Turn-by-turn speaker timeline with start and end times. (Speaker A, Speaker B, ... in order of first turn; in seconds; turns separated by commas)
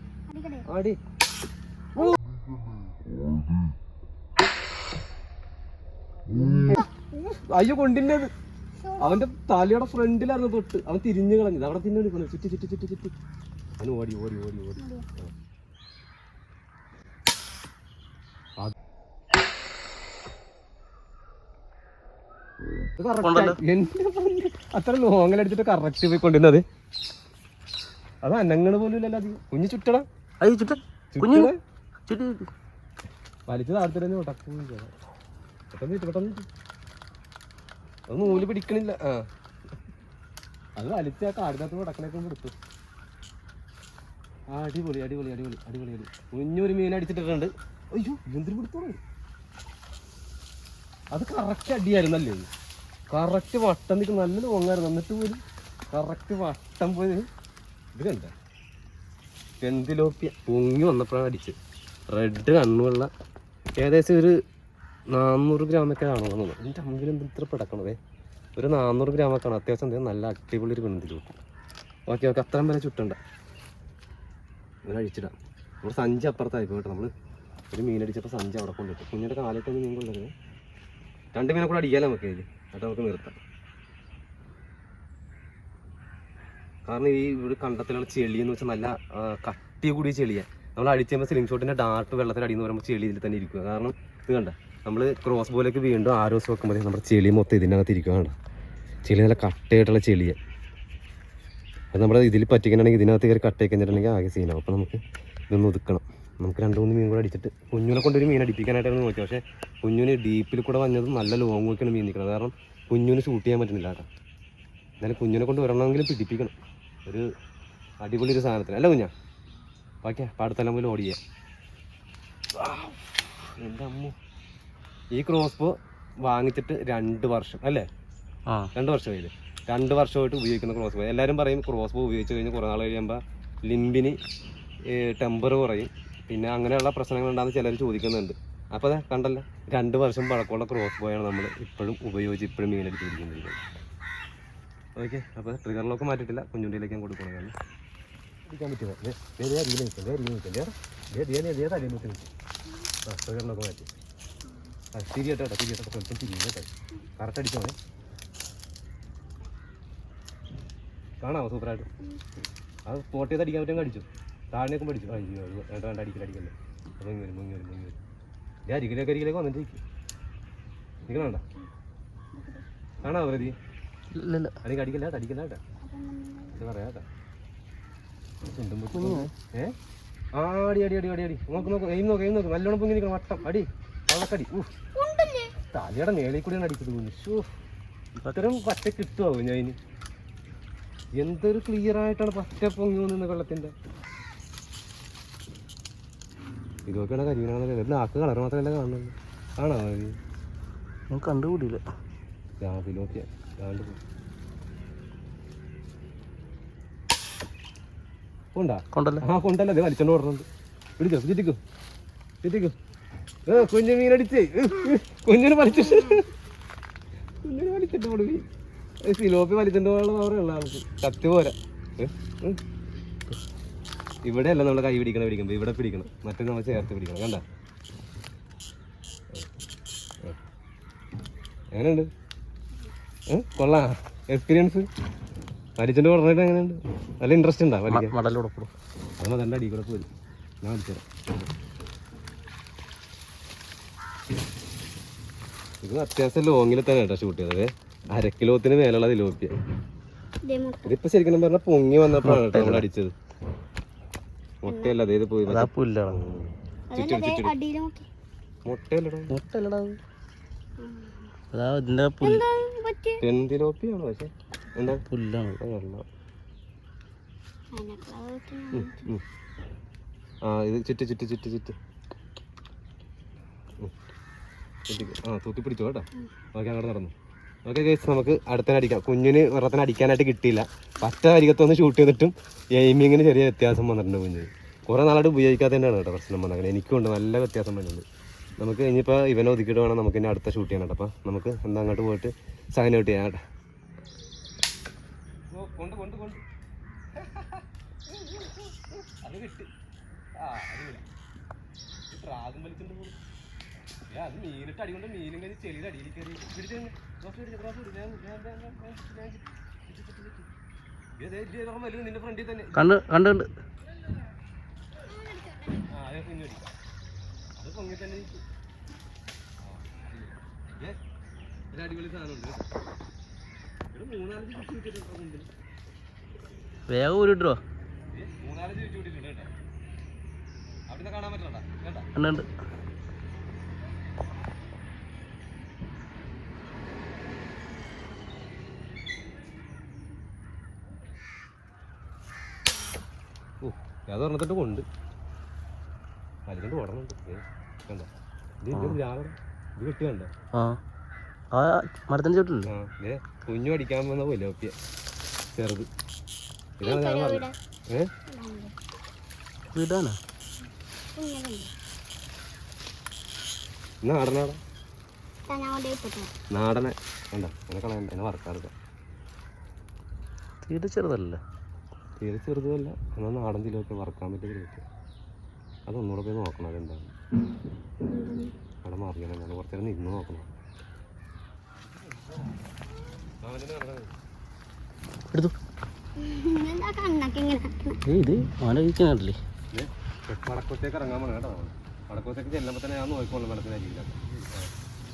Speaker A: 0.3-0.7, Speaker B: 0.7-1.0, Speaker A: 6.5-6.8, Speaker B: 6.7-8.3, Speaker A: 8.8-9.2, Speaker B: 9.0-13.1, Speaker B: 13.8-15.3, Speaker A: 14.8-15.1, Speaker B: 23.0-26.6, Speaker C: 23.2-23.6, Speaker B: 28.2-30.1, Speaker C: 30.4-31.5, Speaker B: 31.1-31.6, Speaker C: 32.1-32.5, Speaker B: 33.5-34.9, Speaker B: 35.7-36.5, Speaker B: 38.1-39.2, Speaker A: 38.2-38.5, Speaker B: 40.8-42.5, Speaker B: 44.5-49.0, Speaker B: 51.1-52.5, Speaker B: 53.1-57.3, Speaker B: 58.0-58.3, Speaker B: 59.6-61.6, Speaker B: 62.1-63.1, Speaker B: 63.8-64.4, Speaker B: 65.1-68.0, Speaker B: 68.6-71.3, Speaker B: 72.1-73.2, Speaker B: 74.8-77.1, Speaker B: 77.7-80.3, Speaker B: 81.3-83.4, Speaker B: 86.8-98.3, Speaker B: 99.0-100.4, Speaker B: 101.9-114.1, Speaker B: 115.0-117.3, Speaker B: 118.0-119.1, Speaker B: 120.0-121.2, Speaker B: 122.5-124.2, Speaker B: 125.1-127.9, Speaker C: 128.5-128.7, Speaker B: 128.7-134.2, Speaker B: 134.9-143.6, Speaker B: 144.9-147.5, Speaker B: 148.4-152.3, Speaker B: 153.0-153.9, Speaker A: 154.4-154.8, Speaker B: 154.9-157.8, Speaker B: 161.2-161.9, Speaker B: 162.8-168.0, Speaker B: 168.7-169.8, Speaker B: 171.1-171.4, Speaker A: 171.2-171.7, Speaker A: 172.3-172.7, Speaker B: 173.0-173.6, Speaker C: 174.1-174.6, Speaker B: 174.6-175.6, Speaker A: 175.8-176.6, Speaker B: 176.6-177.1, Speaker B: 178.5-179.7, Speaker C: 178.9-179.3, Speaker B: 180.3-184.7, Speaker A: 184.9-185.5, Speaker B: 185.7-187.5, Speaker B: 188.3-189.8, Speaker B: 191.2-193.7, Speaker B: 196.9-200.2, Speaker C: 201.1-201.8, Speaker B: 202.6-204.0, Speaker B: 208.5-210.4, Speaker C: 208.9-209.2, Speaker B: 211.0-211.6, Speaker B: 212.4-212.8, Speaker B: 213.4-216.3, Speaker A: 215.8-216.2, Speaker B: 217.4-218.4, Speaker B: 219.0-222.6, Speaker B: 224.2-227.4, Speaker B: 231.7-232.1, Speaker B: 233.3-234.9, Speaker B: 235.8-238.1, Speaker C: 237.9-238.7, Speaker B: 239.2-240.1, Speaker B: 240.6-241.3, Speaker B: 245.8-249.5, Speaker A: 250.4-250.9, Speaker B: 250.8-253.1, Speaker C: 252.1-252.8, Speaker B: 254.6-257.5, Speaker A: 254.7-255.0, Speaker C: 255.4-256.2, Speaker A: 256.9-258.1, Speaker B: 258.6-259.4, Speaker C: 259.3-260.0, Speaker A: 260.8-261.3, Speaker C: 261.5-262.4, Speaker A: 262.2-263.2, Speaker B: 263.2-265.0, Speaker C: 265.1-265.6, Speaker B: 265.6-266.0, Speaker A: 267.7-269.1, Speaker B: 268.7-269.2, Speaker B: 270.4-271.8, Speaker B: 274.9-277.1, Speaker B: 277.6-288.0, Speaker B: 288.6-293.4, Speaker B: 295.5-296.4, Speaker B: 297.1-299.7, Speaker B: 300.3-301.0, Speaker B: 302.1-303.1, Speaker B: 304.1-310.5, Speaker B: 311.2-312.9, Speaker C: 312.7-313.5, Speaker A: 315.1-315.9, Speaker B: 315.9-316.7, Speaker B: 317.6-318.4, Speaker B: 319.6-321.0, Speaker B: 321.7-322.7, Speaker B: 323.9-325.5, Speaker C: 326.9-327.6, Speaker B: 328.1-329.5, Speaker B: 330.9-332.1, Speaker C: 332.1-332.5, Speaker B: 343.6-344.9, Speaker B: 346.5-348.1, Speaker B: 348.6-350.3, Speaker C: 348.7-349.0, Speaker C: 350.5-350.8, Speaker C: 351.5-352.7, Speaker B: 352.7-354.7, Speaker B: 355.5-355.9, Speaker B: 356.8-358.1, Speaker A: 356.8-357.5, Speaker A: 358.3-358.8, Speaker C: 359.7-360.2, Speaker A: 361.1-361.7, Speaker B: 364.0-364.6, Speaker A: 365.5-366.3, Speaker B: 366.5-368.7, Speaker C: 370.6-371.4, Speaker B: 372.2-374.8, Speaker B: 375.9-377.1, Speaker A: 378.0-378.5, Speaker B: 378.8-380.5, Speaker B: 381.8-382.6, Speaker B: 383.4-384.1, Speaker A: 386.2-388.0, Speaker C: 388.1-389.4, Speaker B: 389.7-394.7